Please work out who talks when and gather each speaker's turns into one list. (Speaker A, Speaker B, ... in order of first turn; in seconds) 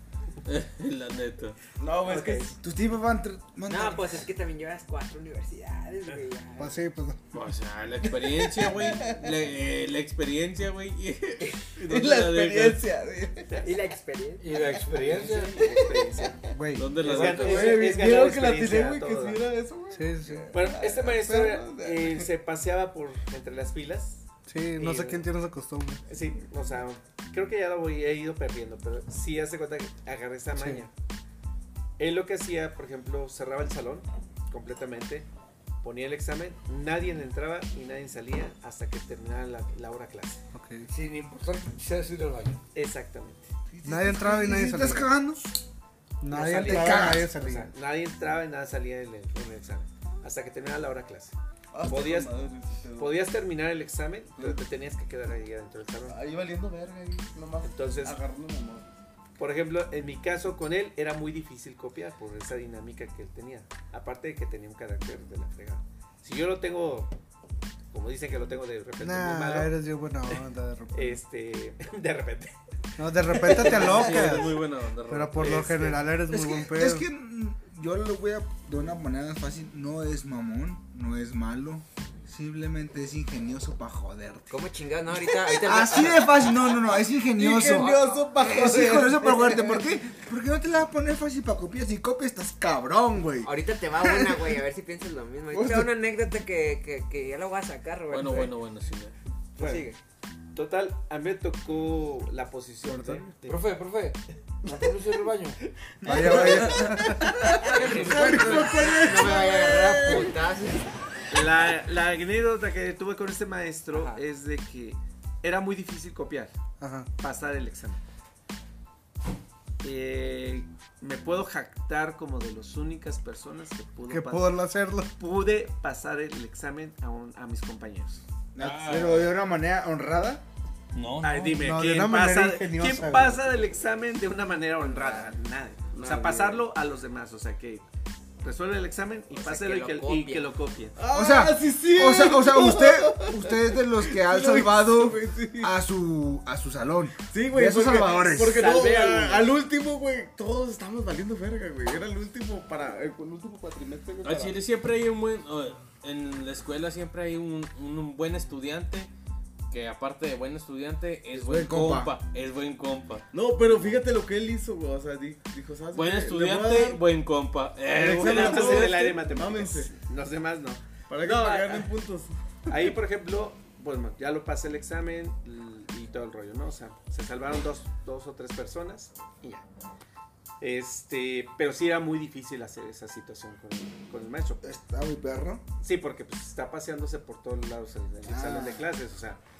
Speaker A: 0.5-1.6, 7.3-12.8, 16.8-17.8, 73.5-75.6, 98.1-99.2, 128.6-129.3, 130.9-131.6, 154.2-159.1, 159.7-163.2, 165.9-169.2
Speaker B: 1.8-2.6, 8.3-9.4, 11.8-13.6, 15.1-16.5, 17.5-22.3, 51.7-53.2, 54.4-54.6, 56.1-58.9, 87.3-89.9, 108.1-109.8, 135.9-136.7, 141.0-145.7, 147.3-154.6, 163.3-167.0, 167.9-169.9, 171.1-172.9
Speaker C: 2.0-2.5, 13.5-13.8, 15.1-16.4, 17.1-19.4, 20.5-24.2, 24.8-25.2, 26.1-30.9, 32.0-35.3, 35.8-40.4, 42.7-43.5, 46.3-52.3, 53.0-56.2, 57.6-58.2, 59.4-67.1, 67.9-69.7, 70.9-72.5, 73.3-74.4, 75.4-76.1, 99.6-99.9, 100.5-103.6, 106.1-107.0, 111.3-116.5, 117.2-118.0, 119.8-124.5, 125.2-128.2, 131.2-137.9, 138.4-141.0, 148.4-149.5, 168.1-171.9, 172.7-179.6, 180.6-184.7, 185.8-189.4
Speaker D: 2.6-4.2, 43.8-45.5, 46.5-47.3, 76.3-84.5, 85.5-94.5, 95.5-95.9, 106.0-107.1, 108.1-109.5, 128.6-130.4, 141.1-148.6, 161.3-162.1, 184.6-185.7, 188.2-188.9
Speaker E: 3.7-6.8, 13.6-14.4, 84.5-86.6, 93.4-98.5, 99.6-100.0, 107.6-110.9, 113.9-114.2, 139.3-140.5
Speaker F: 6.6-7.2, 16.6-16.9, 19.9-20.5, 24.5-26.0, 30.6-30.8, 40.5-40.9, 43.8-45.1, 46.2-47.7, 69.0-71.2, 73.0-77.1, 102.8-103.2, 106.0-107.3, 116.8-117.1, 124.1-125.2, 131.3-133.4
Speaker G: 14.4-15.6, 16.9-17.8, 40.9-42.6, 103.4-105.6, 107.6-108.8